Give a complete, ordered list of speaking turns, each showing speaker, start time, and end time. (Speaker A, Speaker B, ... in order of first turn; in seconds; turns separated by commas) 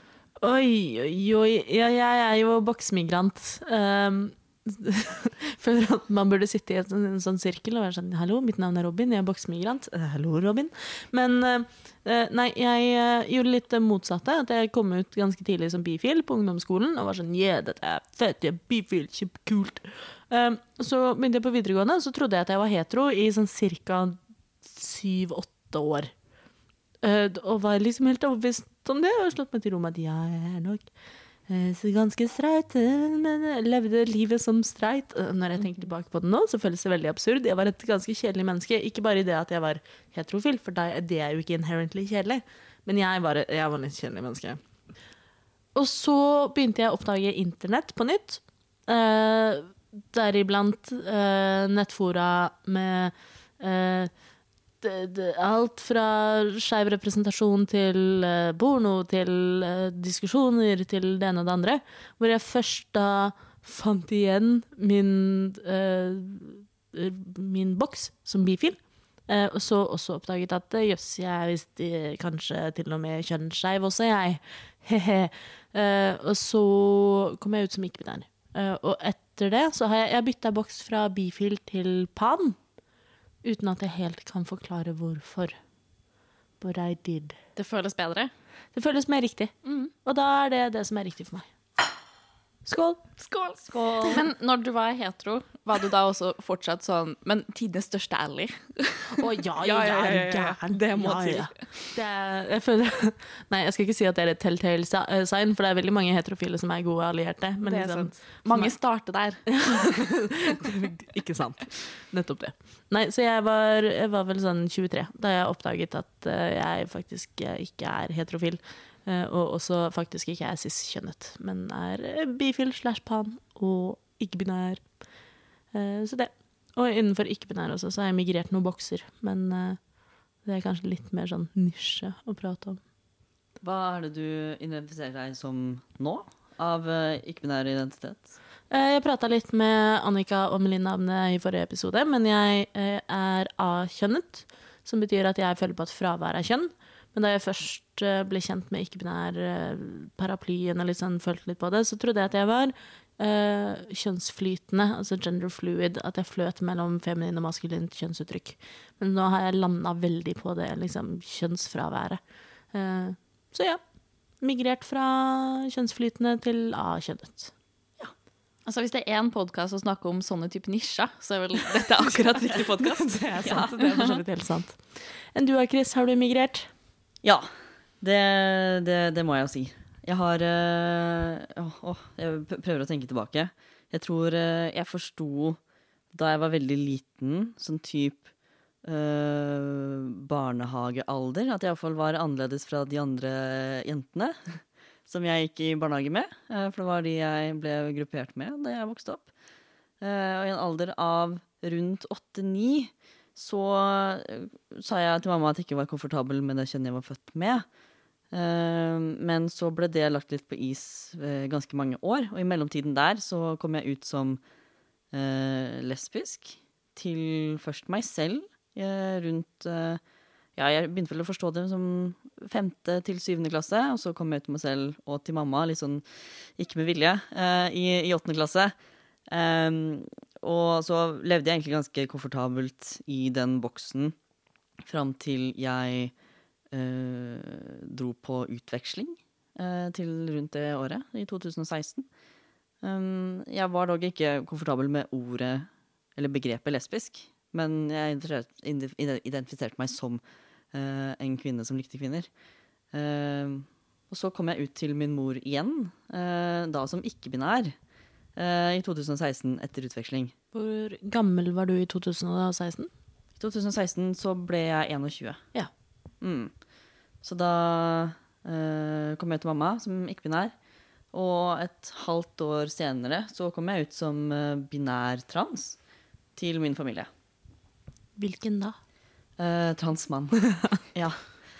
Speaker A: 0.4-26.1, Speaker A: 27.0-30.9, Speaker A: 31.5-44.6, Speaker A: 45.7-54.1, Speaker A: 54.8-82.6, Speaker A: 83.4-85.5, Speaker A: 86.6-87.4, Speaker B: 87.5-88.3, Speaker A: 88.7-91.5, Speaker B: 89.6-89.9, Speaker A: 92.6-93.0, Speaker B: 93.2-101.7, Speaker C: 93.7-94.2, Speaker A: 99.2-108.7, Speaker B: 107.6-109.4, Speaker A: 109.5-124.8, Speaker A: 125.7-129.8, Speaker A: 130.4-132.8, Speaker C: 133.6-138.3, Speaker A: 138.7-162.2, Speaker A: 162.7-163.8, Speaker A: 164.4-167.5, Speaker B: 168.7-174.2, Speaker A: 172.8-176.7, Speaker C: 177.2-177.5, Speaker C: 178.0-185.6, Speaker C: 186.1-188.3, Speaker C: 188.8-199.3, Speaker C: 200.0-207.6, Speaker C: 208.3-214.4, Speaker C: 215.1-220.0, Speaker C: 220.6-226.0, Speaker C: 226.6-228.7, Speaker C: 229.3-234.2, Speaker C: 234.8-236.1, Speaker C: 236.7-242.1, Speaker C: 242.8-250.2, Speaker C: 250.7-252.3, Speaker C: 252.9-257.8, Speaker C: 258.4-260.3, Speaker A: 260.5-262.9, Speaker C: 263.4-265.4, Speaker C: 266.2-266.6, Speaker C: 267.2-270.5, Speaker C: 271.1-275.8, Speaker C: 276.4-277.1, Speaker A: 278.2-278.8, Speaker C: 279.4-281.4